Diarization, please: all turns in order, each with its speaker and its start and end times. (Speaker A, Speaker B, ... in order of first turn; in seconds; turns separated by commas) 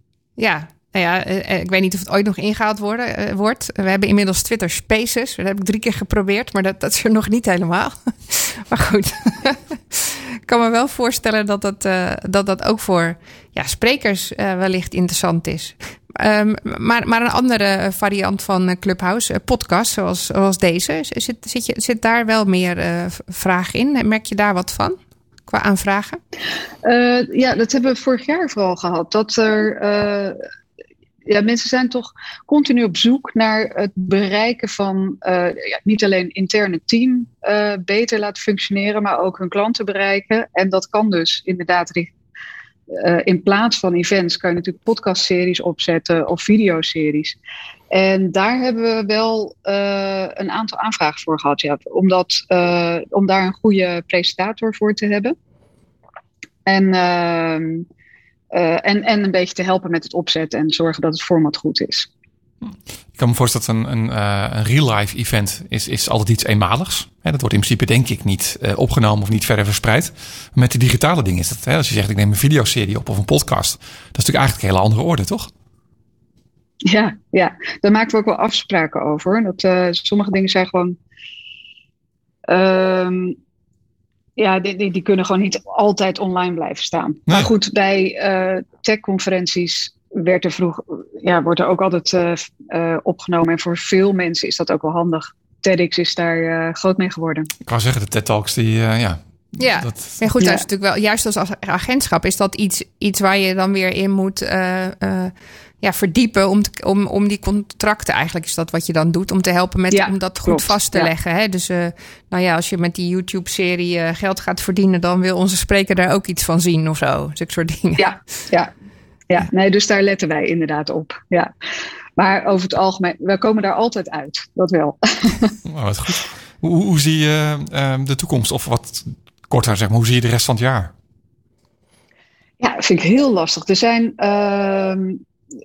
Speaker A: 0.4-26.2, Speaker B: 26.8-30.4, Speaker B: 31.2-42.1, Speaker B: 42.9-47.4, Speaker B: 47.9-55.4, Speaker B: 56.6-57.9, Speaker B: 58.5-62.1, Speaker C: 62.6-75.5, Speaker B: 76.9-81.0, Speaker B: 82.5-83.4, Speaker B: 84.4-97.5, Speaker C: 97.7-99.2, Speaker A: 99.6-118.1, Speaker C: 99.7-100.2, Speaker B: 109.9-111.1, Speaker B: 118.0-118.7, Speaker B: 119.3-121.5, Speaker B: 122.2-125.5, Speaker C: 125.7-130.9, Speaker B: 132.6-135.2